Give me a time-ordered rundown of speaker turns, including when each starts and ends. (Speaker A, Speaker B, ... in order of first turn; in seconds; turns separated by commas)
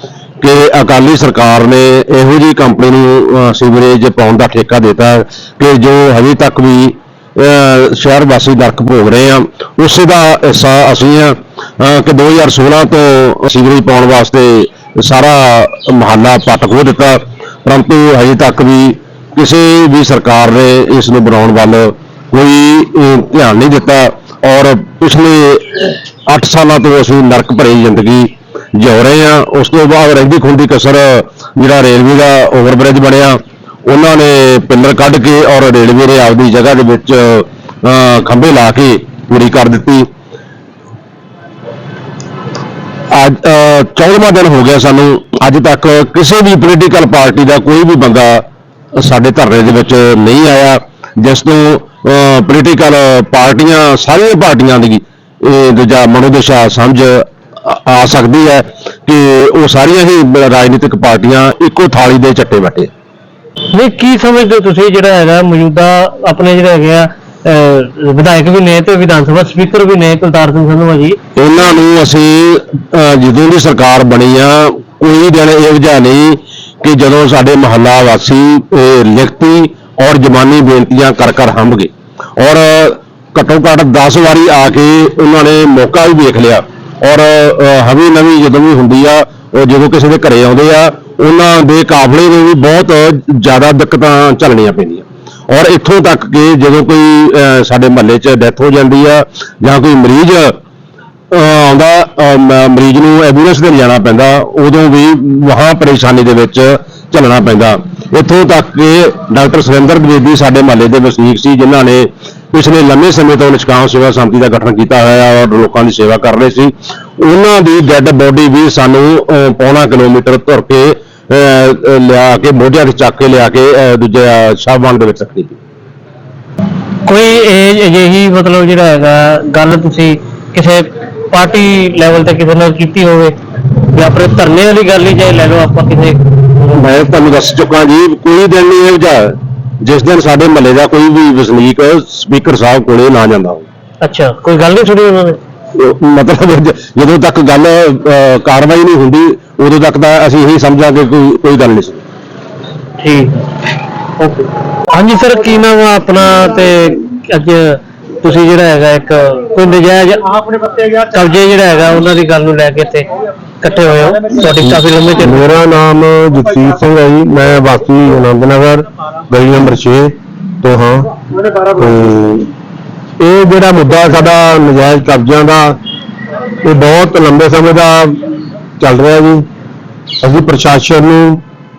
Speaker A: 0.4-40.1, Speaker A: 43.1-48.4, Speaker A: 49.0-62.9, Speaker B: 63.7-71.2, Speaker A: 71.4-100.6, Speaker A: 101.3-125.6, Speaker B: 127.1-133.4, Speaker B: 133.9-136.7, Speaker A: 136.7-143.7, Speaker B: 144.0-145.4, Speaker A: 145.8-152.0, Speaker B: 153.0-153.5, Speaker B: 154.2-160.4, Speaker B: 161.0-163.1, Speaker B: 163.6-165.4, Speaker C: 165.2-171.1, Speaker C: 171.7-172.5, Speaker C: 173.2-175.8, Speaker C: 176.6-179.5, Speaker C: 180.2-181.4